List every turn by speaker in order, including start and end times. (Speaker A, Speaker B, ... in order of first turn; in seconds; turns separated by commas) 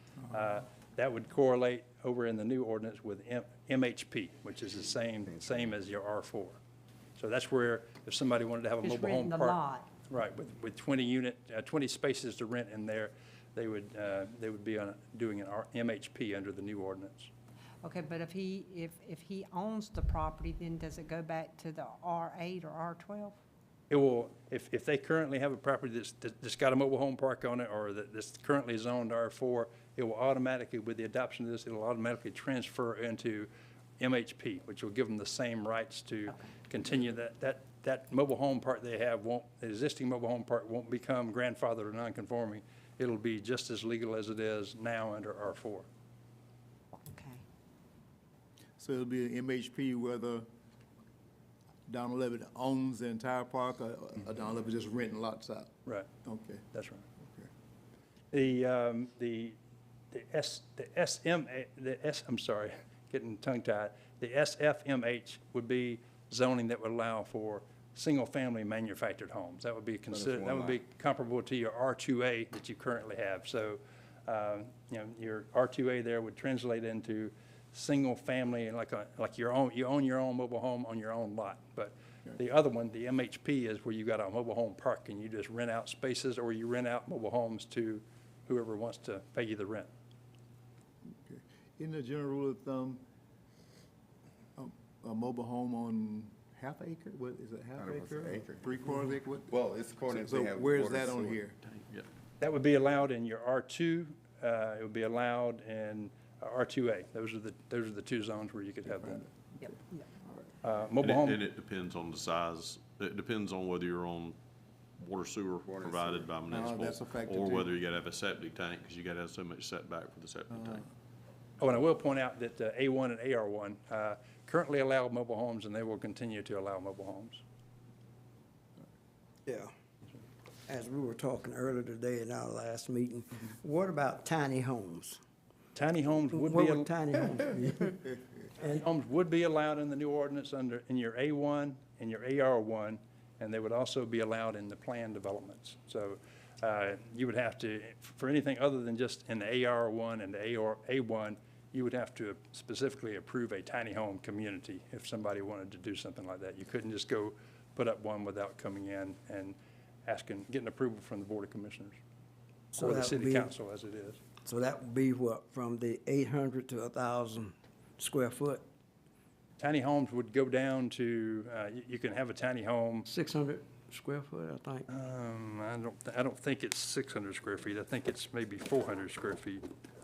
Speaker A: 0.3-6.6, Speaker A: 7.2-17.3, Speaker B: 8.8-9.9, Speaker B: 17.8-23.4, Speaker A: 23.9-45.9, Speaker B: 47.0-47.4, Speaker C: 48.8-50.5, Speaker C: 51.9-55.7, Speaker C: 56.2-56.6, Speaker A: 56.7-57.0, Speaker C: 57.2-57.5, Speaker A: 58.3-59.6, Speaker A: 60.1-89.9, Speaker D: 70.1-70.8, Speaker C: 91.1-93.0, Speaker C: 94.5-99.5, Speaker D: 97.8-98.7, Speaker D: 99.5-101.4, Speaker C: 100.1-101.6, Speaker A: 102.4-109.2, Speaker C: 109.0-109.7, Speaker B: 109.6-110.1, Speaker C: 110.2-110.5, Speaker A: 110.6-111.4, Speaker E: 111.0-114.4, Speaker E: 115.0-120.8, Speaker D: 115.7-116.3, Speaker C: 116.5-117.8, Speaker A: 121.6-127.4, Speaker F: 129.4-129.7, Speaker F: 130.7-135.2, Speaker A: 135.7-136.9, Speaker F: 136.3-138.1, Speaker A: 138.6-162.0, Speaker F: 162.7-163.5, Speaker A: 162.7-164.2, Speaker F: 164.4-168.6, Speaker A: 169.6-173.1, Speaker F: 173.1-174.8, Speaker A: 174.9-179.6